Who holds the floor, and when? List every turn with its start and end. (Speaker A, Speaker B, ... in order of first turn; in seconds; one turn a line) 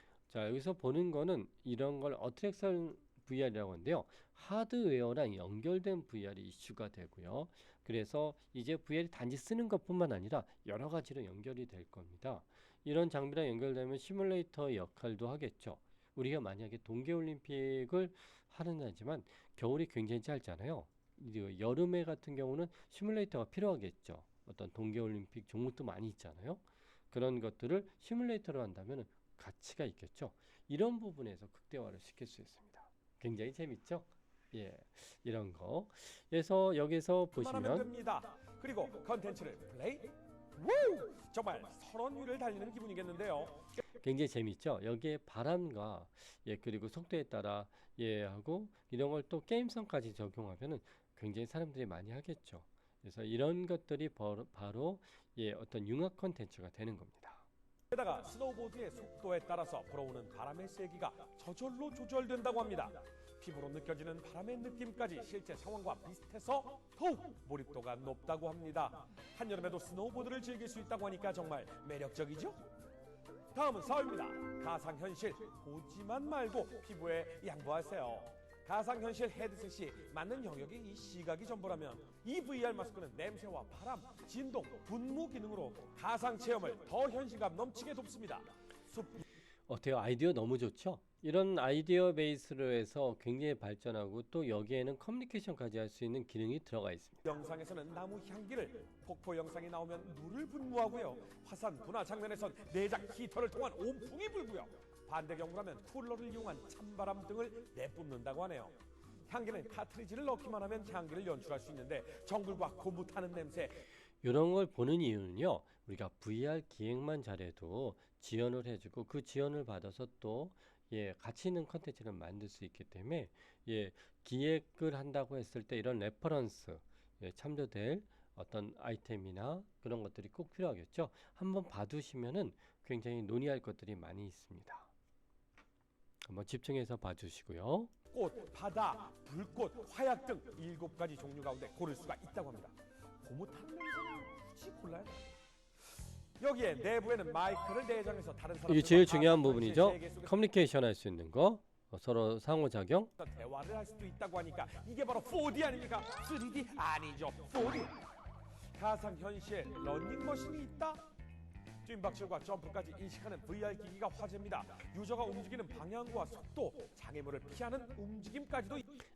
Speaker A: 0.3-37.9
Speaker B: 37.4-43.6
Speaker A: 44.0-57.5
Speaker B: 57.9-72.6
Speaker B: 73.5-89.2
Speaker A: 89.7-97.2
Speaker B: 97.2-113.8
Speaker A: 114.2-134.9
Speaker A: 136.2-137.9
Speaker B: 138.1-145.4
Speaker B: 146.4-150.4
Speaker A: 148.7-153.1
Speaker B: 153.2-158.0
Speaker B: 158.8-161.1
Speaker B: 161.8-168.9